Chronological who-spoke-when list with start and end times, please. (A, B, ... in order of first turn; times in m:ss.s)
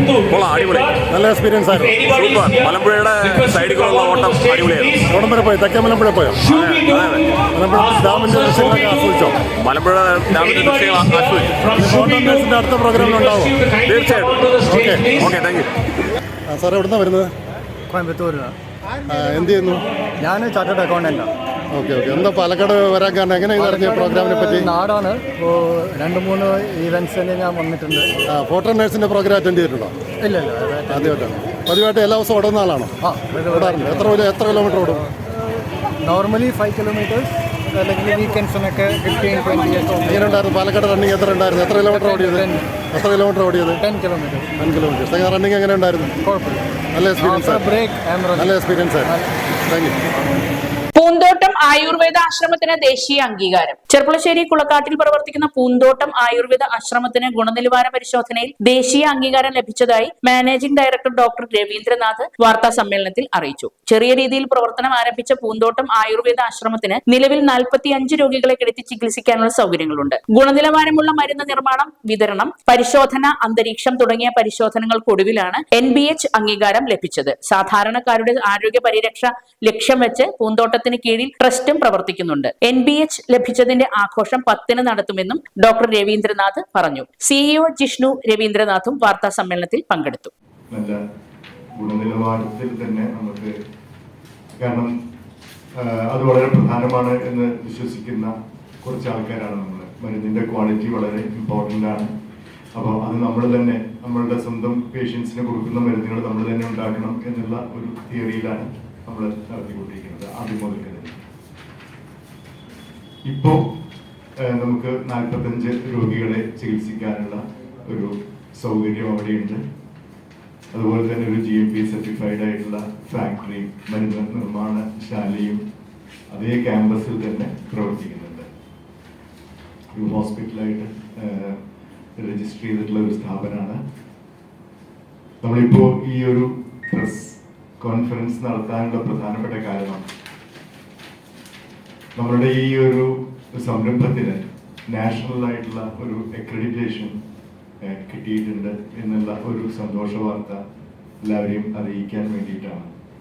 0:00.3-0:01.1 A
0:01.1-0:01.9 B
0:01.9-0:05.1 A
0:05.1-0:06.4 B
0:06.4-0:07.3 A
0:07.5-0:09.4 B
0:09.6-0:11.8 A
0:11.8-0:13.6 B
0:13.7-0:15.7 A
0:14.7-0:15.1 B
0:16.5-0:17.3 B
0:17.9-0:18.5 C
0:19.1-0:19.8 B
0:20.2-0:21.3 C
0:21.7-0:24.7 B
0:23.6-0:25.3 C
0:26.0-0:28.1 C
0:28.3-0:30.0 B
0:30.3-0:31.2 C
0:30.9-0:33.0 B
0:33.0-0:34.1 C
0:33.5-0:35.0 B
0:36.1-0:37.3 C
0:37.8-0:40.0 C
0:40.0-0:43.8 B
0:41.9-0:42.6 C
0:43.8-0:44.5 C
0:44.6-0:46.2 B
0:46.9-0:47.6 B
0:47.2-0:48.6 C
0:48.4-0:49.1 B
0:49.7-0:50.0 B
0:51.0-1:30.3 D
1:30.7-1:31.0 E
1:31.8-1:33.5 E
1:34.6-1:34.9 E
1:35.8-1:38.3 E
1:38.8-1:42.1 E
1:42.8-1:51.2 E
1:53.3-1:53.6 E
1:54.5-1:59.6 E
2:00.7-2:05.6 E
2:06.3-2:08.5 E
2:09.9-2:11.6 E
2:12.2-2:13.8 E
2:15.4-2:20.0 E
2:22.2-2:27.2 E
2:27.8-2:30.6 E
2:31.2-2:32.9 E